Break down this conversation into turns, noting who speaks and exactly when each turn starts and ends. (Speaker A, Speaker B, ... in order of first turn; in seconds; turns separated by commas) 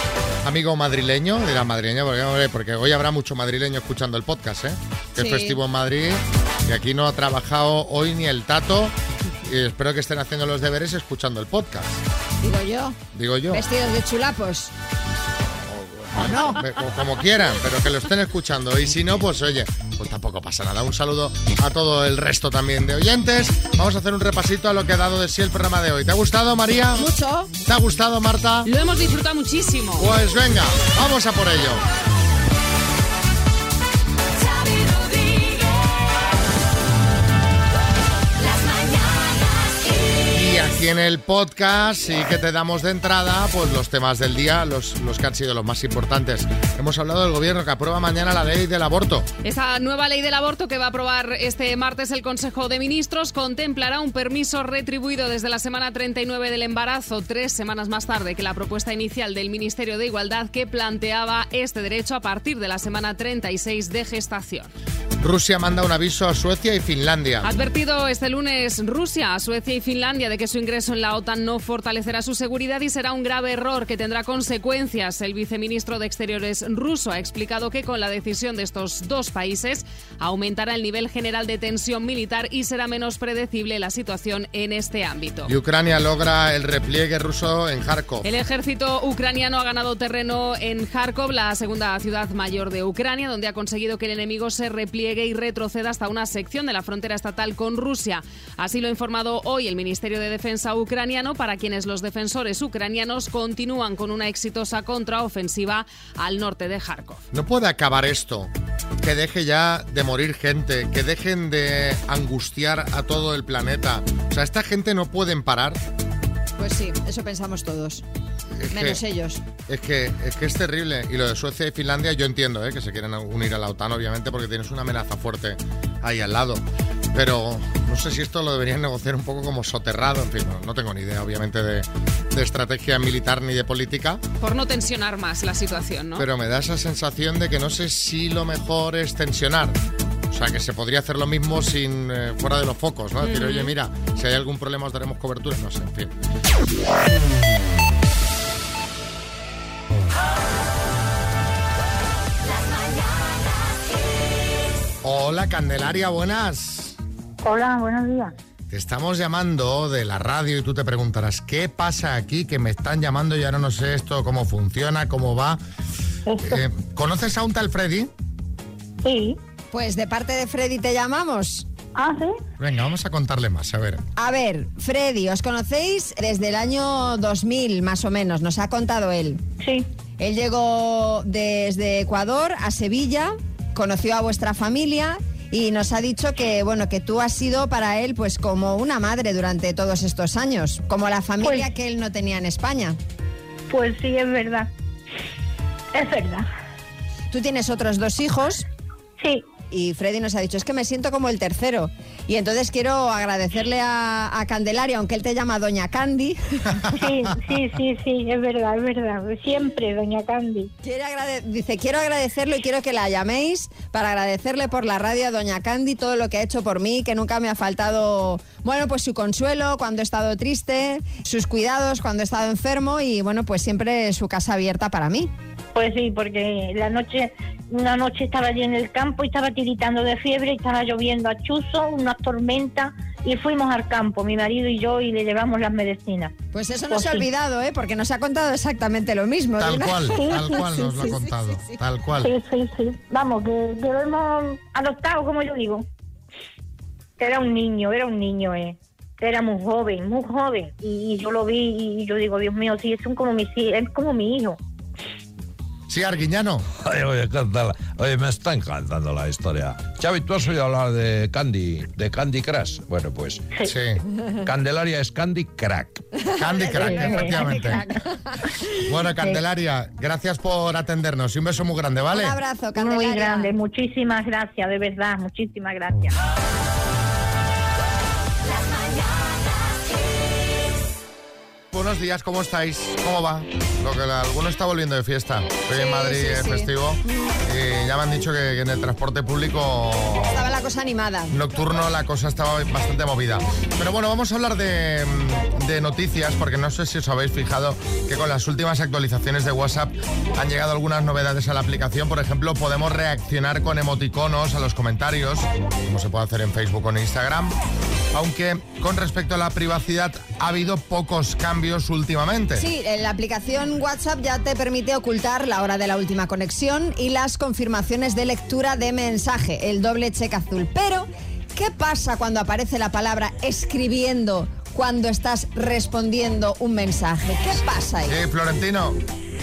Speaker A: 0.4-8.9, Speaker B: 5.2-5.6, Speaker A: 9.4-12.0, Speaker B: 12.4-13.0, Speaker A: 13.1-13.6, Speaker B: 13.5-14.7, Speaker A: 16.1-27.1, Speaker B: 16.2-16.6, Speaker B: 26.9-27.5, Speaker A: 27.6-28.7, Speaker C: 28.6-30.1, Speaker A: 30.0-31.8, Speaker A: 40.3-49.3, Speaker C: 49.4-64.7, Speaker A: 65.2-67.5, Speaker C: 67.4-85.5, Speaker A: 85.5-88.2, Speaker C: 88.2-107.2, Speaker A: 107.3-108.5, Speaker A: 109.0-115.8, Speaker B: 116.6-118.0, Speaker A: 118.6-119.0, Speaker B: 118.7-119.5, Speaker A: 119.6-134.2, Speaker C: 134.4-136.2, Speaker A: 136.2-139.8, Speaker A: 140.3-146.1, Speaker C: 143.2-143.7, Speaker A: 155.0-156.9, Speaker D: 157.4-158.3, Speaker A: 158.7-165.6, Speaker D: 166.3-166.6, Speaker A: 166.4-168.1, Speaker D: 169.0-169.4, Speaker B: 169.7-171.7, Speaker D: 171.9-172.3, Speaker A: 172.6-174.0, Speaker B: 174.2-179.4, Speaker D: 179.6-179.9, Speaker B: 180.2-193.0, Speaker D: 191.4-191.7, Speaker D: 193.7-194.7, Speaker D: 195.9-196.5, Speaker B: 197.3-198.6, Speaker D: 199.2-199.4, Speaker B: 199.7-206.7, Speaker D: 207.0-210.7, Speaker B: 210.8-225.3, Speaker D: 225.7-236.3, Speaker B: 236.5-241.7, Speaker D: 236.9-237.3, Speaker A: 239.6-242.3, Speaker D: 240.2-241.1, Speaker D: 242.2-245.8, Speaker D: 247.2-254.6, Speaker A: 255.9-256.6, Speaker E: 256.8-263.4, Speaker A: 263.6-264.0, Speaker E: 264.4-266.0, Speaker B: 266.4-268.0, Speaker A: 266.4-267.8, Speaker D: 266.8-267.4, Speaker A: 268.9-272.4, Speaker B: 272.1-273.5, Speaker D: 272.8-276.1, Speaker A: 281.7-290.4, Speaker B: 285.7-286.7, Speaker B: 290.3-291.4, Speaker A: 291.3-307.6, Speaker A: 308.1-312.6, Speaker B: 312.6-328.2, Speaker A: 328.1-329.0